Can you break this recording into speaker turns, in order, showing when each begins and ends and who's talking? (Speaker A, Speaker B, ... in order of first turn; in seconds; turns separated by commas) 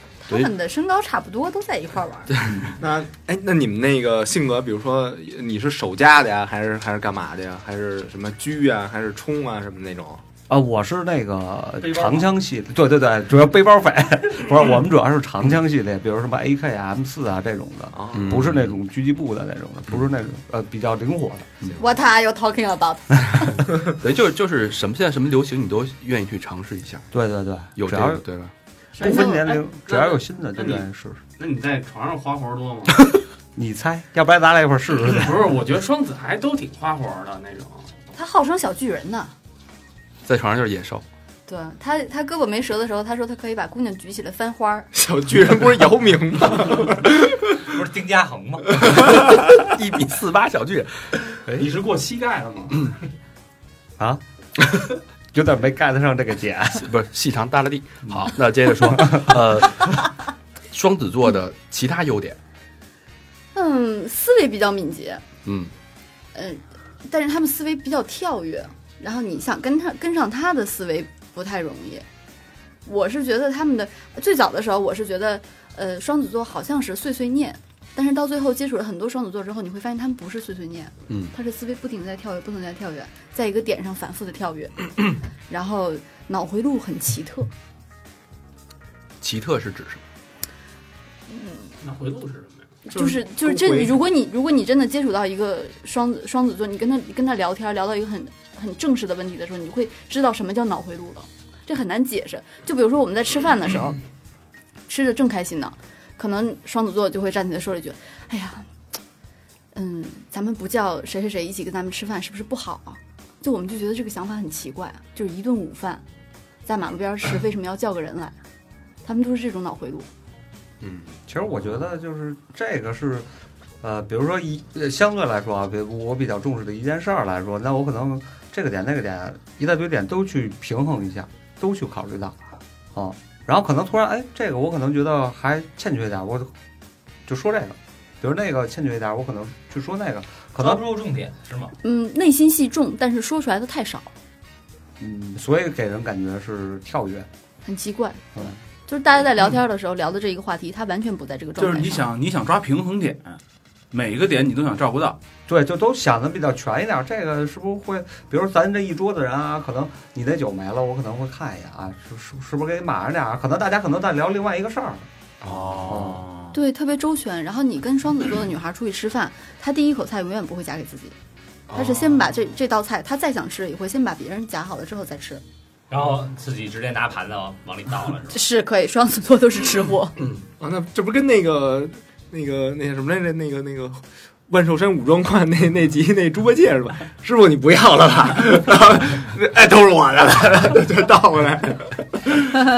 Speaker A: 0.2-2.3, Speaker B: 2.4-2.6, Speaker C: 2.5-2.7, Speaker D: 2.8-10.2, Speaker C: 10.5-21.5, Speaker E: 11.8-12.3, Speaker D: 17.9-18.4, Speaker B: 18.1-18.7, Speaker A: 21.8-23.6, Speaker B: 24.0-27.1, Speaker C: 27.1-28.2, Speaker B: 27.8-28.5, Speaker E: 29.0-30.8, Speaker C: 29.0-31.2, Speaker A: 29.0-29.4, Speaker E: 31.4-33.0, Speaker C: 33.5-35.5, Speaker E: 35.0-38.0, Speaker A: 38.1-39.3, Speaker B: 40.2-41.0, Speaker A: 41.5-44.9, Speaker D: 44.9-47.5, Speaker F: 47.7-48.9, Speaker B: 49.3-51.0, Speaker E: 51.5-53.0, Speaker C: 55.3-56.9, Speaker B: 56.8-60.1, Speaker B: 60.7-62.4, Speaker A: 63.5-65.2, Speaker B: 65.4-65.7, Speaker A: 66.3-72.0, Speaker A: 72.8-84.9, Speaker B: 81.1-81.3, Speaker A: 85.5-87.5, Speaker B: 89.2-90.0, Speaker A: 91.3-91.7, Speaker E: 91.8-92.7, Speaker A: 92.8-104.0, Speaker D: 92.9-94.0, Speaker A: 104.9-108.7, Speaker A: 109.7-116.0, Speaker A: 116.7-118.4, Speaker A: 119.0-120.1, Speaker B: 120.8-121.1, Speaker C: 121.3-123.3, Speaker C: 123.8-132.4, Speaker C: 132.9-136.5, Speaker C: 137.2-140.8, Speaker F: 140.6-141.7, Speaker A: 141.8-144.1, Speaker C: 145.0-147.3, Speaker A: 147.6-148.2, Speaker A: 148.9-152.1, Speaker G: 151.6-155.2, Speaker C: 155.5-165.1, Speaker B: 165.4-166.1, Speaker G: 165.4-166.6, Speaker C: 165.9-166.2, Speaker A: 166.5-171.2, Speaker B: 171.7-172.2, Speaker A: 171.7-175.4, Speaker F: 175.9-178.4, Speaker A: 178.3-180.2, Speaker B: 180.2-180.4, Speaker D: 180.6-192.1